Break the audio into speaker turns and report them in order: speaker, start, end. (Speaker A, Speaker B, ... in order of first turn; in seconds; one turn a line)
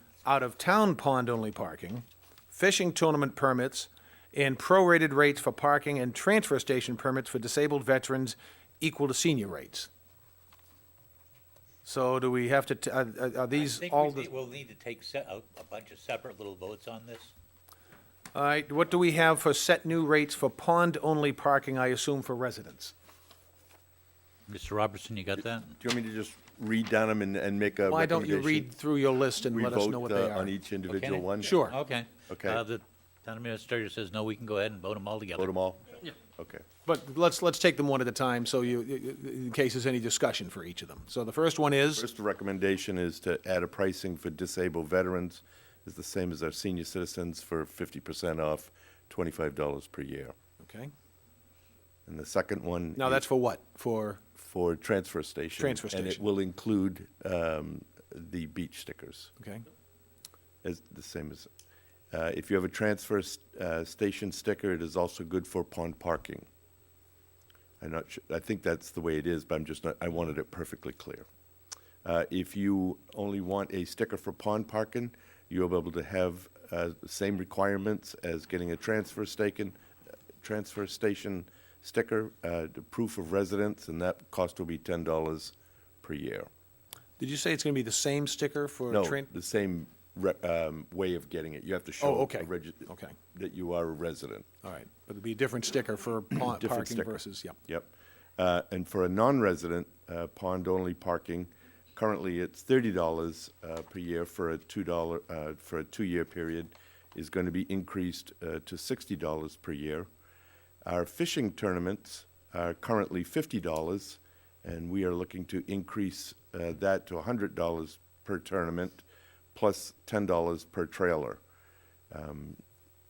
Speaker A: 0.2-9.9
Speaker A: 11.8-14.3
Speaker B: 13.5-17.3
Speaker A: 18.3-22.9
Speaker B: 24.5-25.8
Speaker C: 25.8-28.7
Speaker A: 27.9-30.5
Speaker C: 29.5-31.6
Speaker B: 30.9-35.5
Speaker A: 31.4-31.8
Speaker C: 32.3-32.6
Speaker C: 35.4-36.7
Speaker A: 36.9-42.0
Speaker C: 42.0-50.3
Speaker A: 50.6-50.9
Speaker C: 52.1-53.2
Speaker A: 53.0-54.2
Speaker C: 54.4-59.3
Speaker A: 55.6-56.2
Speaker A: 59.4-59.6
Speaker C: 60.6-61.5
Speaker C: 62.1-66.5
Speaker C: 67.8-71.2
Speaker C: 72.0-79.8
Speaker C: 80.4-86.5
Speaker A: 87.2-89.3
Speaker C: 88.9-94.5
Speaker A: 92.0-93.2
Speaker A: 94.6-97.6
Speaker C: 96.3-110.1
Speaker C: 110.8-121.4
Speaker C: 122.1-122.6